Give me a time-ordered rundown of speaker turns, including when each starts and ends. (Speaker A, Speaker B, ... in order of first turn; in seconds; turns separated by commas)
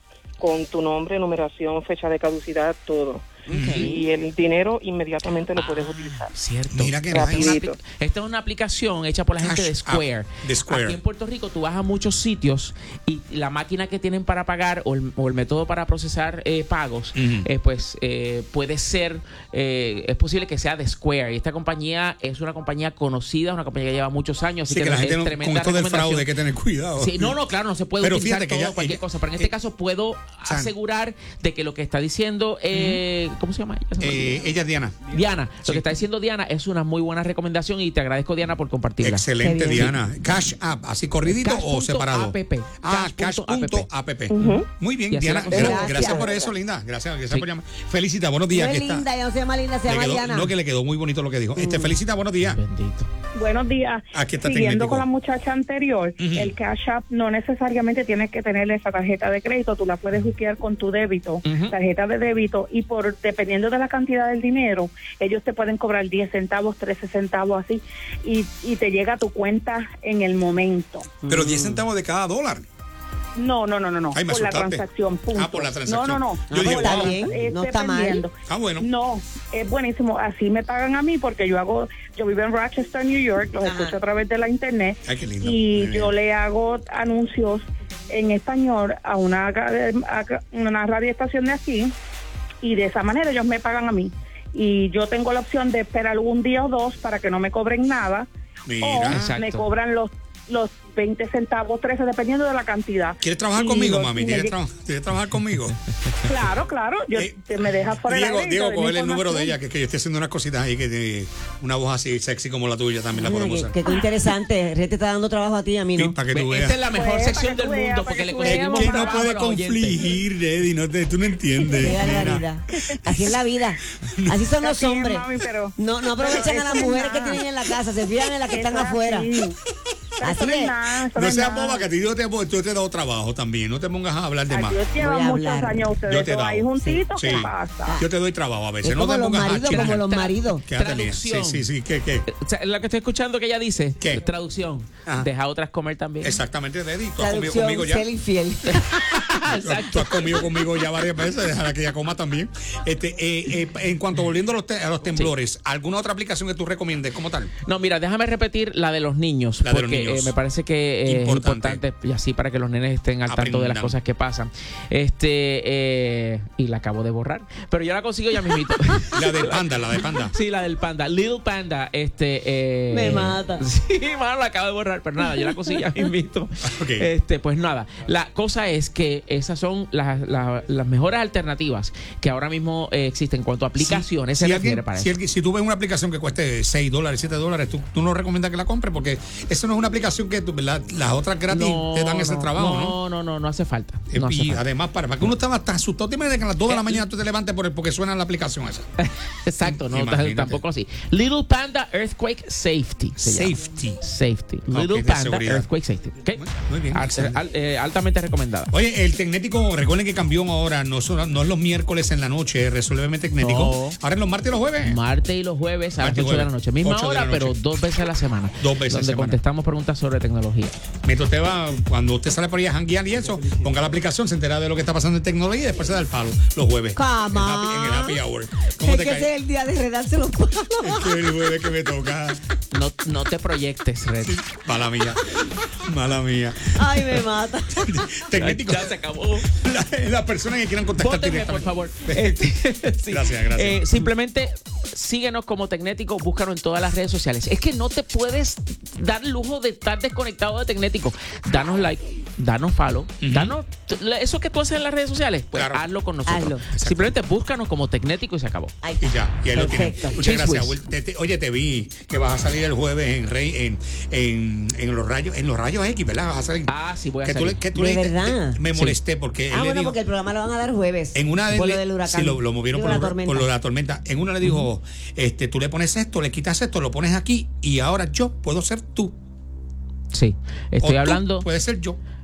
Speaker A: 0.4-6.3, Speaker B: 3.5-4.0, Speaker C: 3.5-4.0, Speaker D: 5.6-26.3, Speaker C: 6.7-7.6, Speaker A: 7.1-7.8, Speaker C: 9.4-11.0, Speaker C: 17.1-17.5, Speaker C: 24.7-27.4, Speaker D: 27.0-34.4, Speaker C: 28.0-29.5, Speaker C: 30.4-30.7, Speaker C: 32.7-33.0, Speaker C: 34.0-35.1, Speaker D: 35.1-39.3, Speaker C: 35.6-35.9, Speaker C: 39.0-49.1, Speaker B: 39.4-40.0, Speaker D: 41.2-43.9, Speaker A: 44.3-44.7, Speaker D: 45.1-46.2, Speaker B: 45.5-46.4, Speaker A: 45.5-46.5, Speaker B: 48.5-50.5, Speaker C: 49.9-52.6, Speaker B: 51.6-51.9, Speaker D: 52.5-53.1, Speaker E: 53.4-71.2, Speaker C: 54.1-55.1, Speaker C: 56.2-56.5, Speaker D: 61.5-61.8, Speaker B: 71.2-71.8, Speaker C: 71.3-72.7, Speaker E: 73.4-91.9, Speaker C: 74.1-77.3, Speaker B: 76.5-78.3, Speaker C: 78.5-78.9, Speaker B: 83.6-84.0, Speaker C: 85.1-86.1, Speaker E: 92.6-98.3, Speaker C: 98.7-99.3, Speaker E: 98.8-104.5, Speaker D: 99.1-99.7, Speaker C: 103.2-105.8, Speaker E: 106.2-109.6, Speaker C: 107.1-113.8, Speaker B: 113.1-116.2, Speaker C: 116.0-116.8, Speaker D: 116.3-120.0, Speaker E: 116.9-119.2, Speaker C: 118.4-122.5, Speaker B: 121.7-125.3, Speaker C: 124.0-124.4, Speaker E: 124.6-127.4, Speaker B: 125.8-129.3, Speaker E: 128.5-129.6, Speaker E: 130.2-131.9, Speaker B: 130.2-130.8, Speaker C: 131.1-134.8, Speaker E: 134.5-138.0, Speaker B: 134.9-136.0, Speaker C: 136.0-140.1, Speaker B: 136.8-138.1, Speaker B: 138.8-140.6, Speaker D: 139.7-141.7, Speaker C: 140.6-142.3, Speaker D: 142.3-146.4, Speaker C: 146.2-148.1, Speaker B: 147.2-148.9, Speaker D: 148.7-150.5, Speaker C: 149.3-157.5, Speaker D: 157.7-169.7, Speaker C: 159.6-160.3, Speaker C: 161.1-161.8, Speaker C: 163.3-164.0, Speaker C: 169.1-170.3, Speaker D: 170.2-185.1, Speaker B: 172.9-173.6, Speaker C: 176.7-177.1, Speaker C: 183.8-193.0, Speaker D: 191.5-194.6, Speaker C: 194.1-198.9, Speaker D: 196.7-197.0, Speaker D: 199.0-208.7, Speaker C: 199.6-200.6, Speaker C: 203.2-204.0, Speaker C: 204.7-205.7, Speaker C: 206.3-207.4, Speaker C: 208.7-215.0, Speaker D: 213.4-214.0, Speaker D: 214.8-220.8, Speaker C: 216.0-217.6, Speaker C: 218.6-219.4, Speaker C: 221.0-229.3, Speaker B: 227.0-228.2, Speaker B: 228.8-231.1, Speaker C: 230.8-232.4, Speaker D: 232.7-234.4, Speaker C: 234.2-237.2, Speaker B: 236.8-238.1, Speaker C: 237.8-239.0, Speaker D: 238.3-239.5, Speaker C: 239.5-242.5, Speaker D: 241.0-258.8, Speaker C: 243.1-244.0, Speaker C: 253.2-253.6, Speaker C: 255.5-255.9, Speaker B: 256.3-256.6, Speaker C: 256.7-257.1, Speaker B: 258.8-260.2, Speaker C: 259.0-266.7, Speaker D: 260.2-260.8, Speaker D: 266.7-267.6, Speaker C: 267.2-270.0, Speaker B: 267.7-268.6, Speaker B: 269.5-273.5, Speaker C: 271.1-279.1, Speaker D: 280.1-281.5, Speaker C: 280.8-282.0